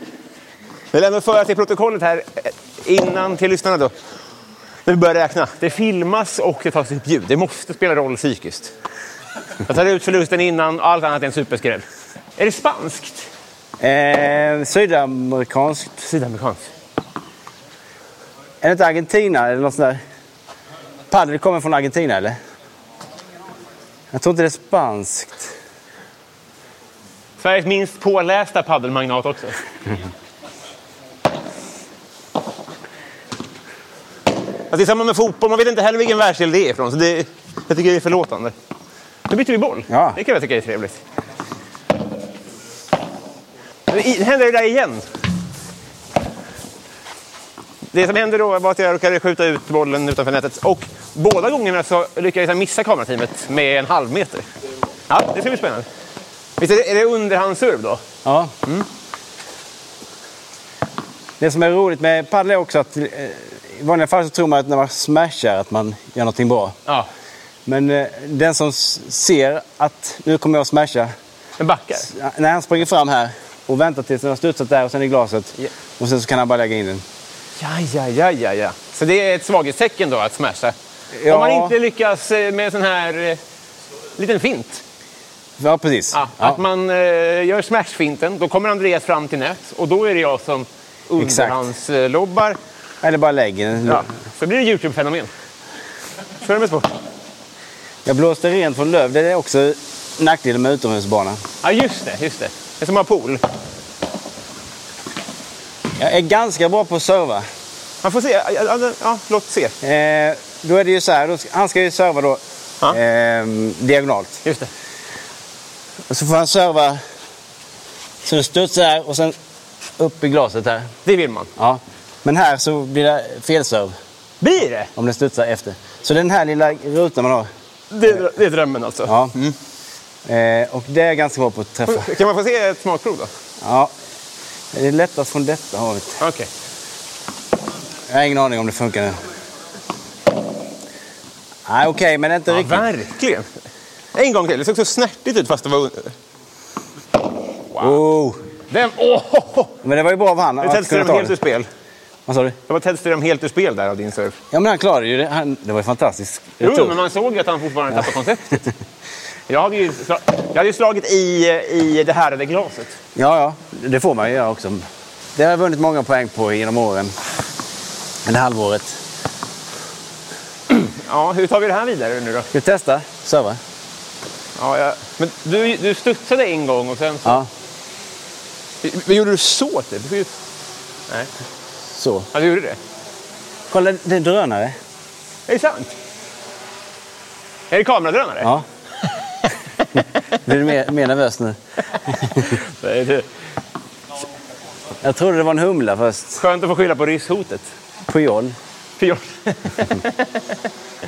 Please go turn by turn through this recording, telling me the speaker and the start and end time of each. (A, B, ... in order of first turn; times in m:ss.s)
0:00.9-0:03.9 A
0:04.9-0:08.7 A
0:09.7-0:11.8 A
0:12.4-0:13.3 A
0:13.8-0:16.1 B
0:16.1-0:16.7 A
0:18.6-0:20.0 B
0:21.1-0:22.4 B
0:24.1-0:25.5 B
0:27.4-0:29.6 A
0:34.7-0:38.5 A
0:39.3-0:41.0 A
0:39.9-0:40.2 B
0:43.9-0:45.1 A
0:47.9-0:54.5 A
0:55.1-0:55.9 A
0:56.6-0:58.0 A
0:58.2-0:58.5 B
1:01.4-1:06.8 B
1:07.7-1:11.1 B
1:11.6-1:12.1 A
1:12.0-1:17.0 B
1:17.6-1:20.8 A
1:21.1-1:21.8 B
1:21.3-1:23.4 A
1:24.2-1:24.8 A
1:25.6-1:26.6 B
1:26.1-1:32.6 A
1:31.2-1:31.6 B
1:33.0-1:34.1 B
1:33.9-1:35.3 A
1:36.4-1:36.9 A
1:38.0-1:41.4 B
1:41.6-1:43.4 A
1:46.0-1:47.4 B
1:48.0-1:49.8 A
1:49.8-1:54.4 B
1:56.1-1:57.0 B
1:58.2-1:59.4 B
2:00.0-2:00.9 B
2:01.1-2:01.5 A
2:01.6-2:03.9 B
2:04.4-2:04.9 A
2:05.0-2:07.5 B
2:07.9-2:09.6 A
2:09.1-2:09.4 B
2:10.2-2:12.1 B
2:11.9-2:13.3 A
2:13.6-2:13.9 B
2:14.7-2:16.2 B
2:16.2-2:16.5 A
2:18.1-2:19.2 B
2:21.7-2:22.8 B
2:22.5-2:23.5 A
2:24.2-2:26.1 A
2:27.7-2:28.0 A
2:27.8-2:28.4 B
2:28.7-2:29.8 A
2:29.8-2:31.4 B
2:30.6-2:31.7 A
2:32.3-2:32.6 B
2:32.7-2:34.4 A
2:34.5-2:37.0 B
2:36.6-2:38.6 A
2:39.5-2:43.0 A
2:43.2-2:44.8 B
2:45.4-2:47.2 B
2:48.2-2:49.0 B
2:50.7-2:52.5 A
2:52.5-2:53.6 B
2:54.6-2:57.4 A
2:58.8-3:00.3 A
3:01.9-3:02.3 B
3:02.3-3:02.8 A
3:03.7-3:04.8 B
3:05.5-3:05.9 A
3:07.7-3:08.5 A
3:10.5-3:11.6 B
3:12.1-3:12.4 B
3:12.4-3:13.3 A
3:15.0-3:16.4 B
3:16.4-3:17.7 A
3:18.1-3:18.6 B
3:19.0-3:20.4 A